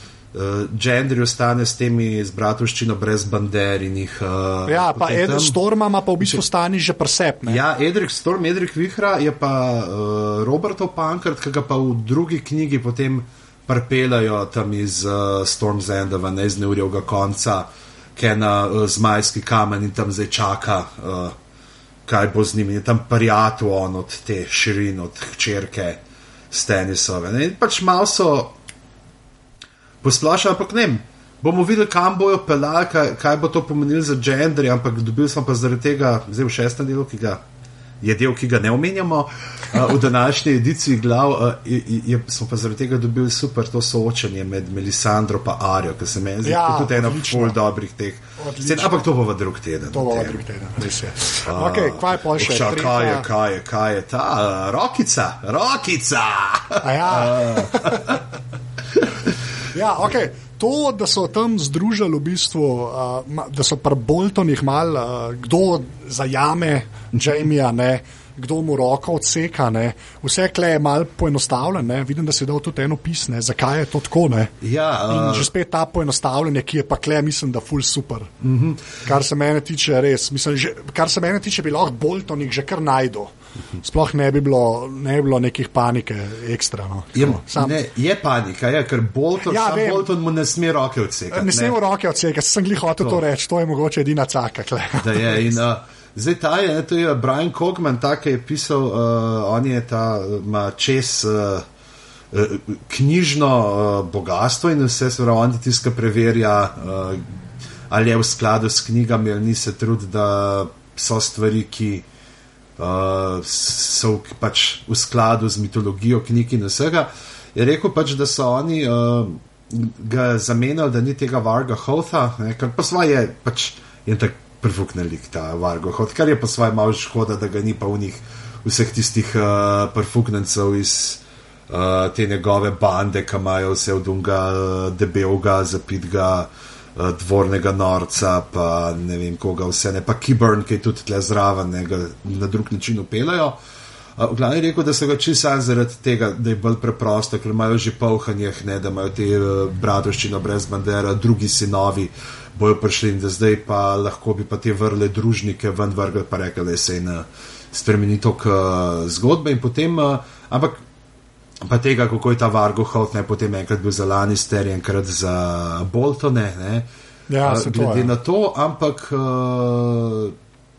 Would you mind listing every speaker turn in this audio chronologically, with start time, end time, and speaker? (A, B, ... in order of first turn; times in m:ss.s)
0:00.3-0:05.6 A
0:04.6-0:07.6 B
0:07.4-0:21.3 A
0:22.0-0:28.6 A
0:30.0-0:37.4 A
0:38.0-0:50.4 A
0:46.4-0:47.6 B
0:48.4-0:49.0 B
0:49.9-0:53.3 B
0:51.4-0:58.2 A
0:56.8-0:58.2 B
0:58.9-0:59.3 A
0:59.7-1:14.5 B
1:14.6-1:15.5 A
1:15.1-1:18.3 B
1:18.4-1:18.9 A
1:19.0-1:27.8 B
1:27.1-1:31.8 A
1:29.4-1:30.1 B
1:31.3-1:35.6 B
1:35.0-1:41.6 A
1:42.3-1:47.3 A
1:47.9-1:52.0 A
1:52.8-2:23.6 A
2:24.2-2:40.8 A
2:41.6-2:46.9 A
2:47.3-2:48.1 B
2:47.4-2:50.3 A